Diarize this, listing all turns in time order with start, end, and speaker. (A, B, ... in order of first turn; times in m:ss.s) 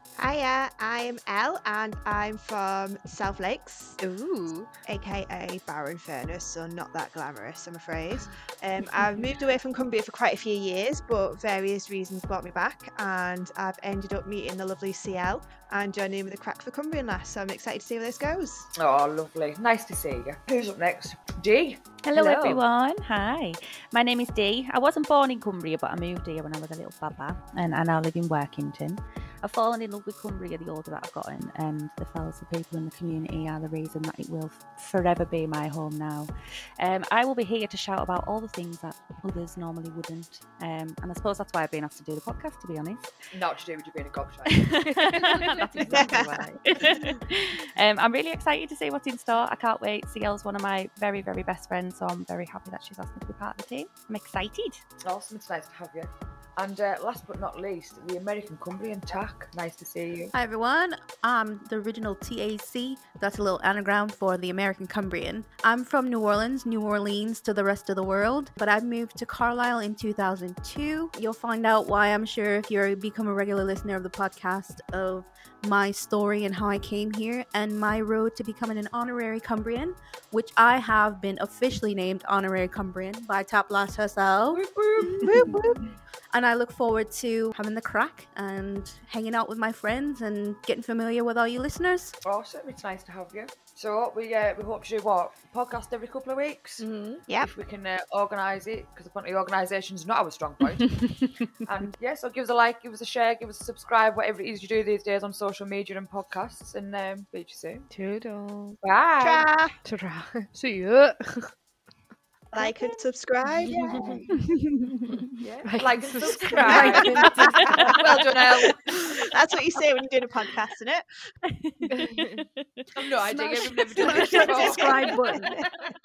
0:00.2-0:04.0 A
0:04.0-0:04.7 B
0:04.9-0:18.7 A
0:18.8-0:22.6 C
0:22.0-0:43.1 D
0:43.3-0:46.1 C
0:44.5-0:54.8 D
0:55.0-1:00.3 C
1:00.3-1:32.2 E
1:24.5-1:25.6 C
1:32.2-1:36.9 C
1:36.8-1:37.2 B
1:37.4-1:47.9 C
1:47.9-1:48.8 B
1:48.8-1:49.5 C
1:49.2-1:49.8 A
1:49.8-1:51.5 B
1:52.5-1:53.8 A
1:53.7-1:54.3 C
1:53.7-1:54.1 B
1:55.6-1:57.5 B
1:55.8-1:59.1 C
1:56.6-1:57.8 E
1:58.9-2:01.1 A
2:01.5-2:02.8 D
2:01.9-2:02.4 B
2:03.0-2:05.9 C
2:03.2-2:05.6 E
2:04.3-2:05.4 A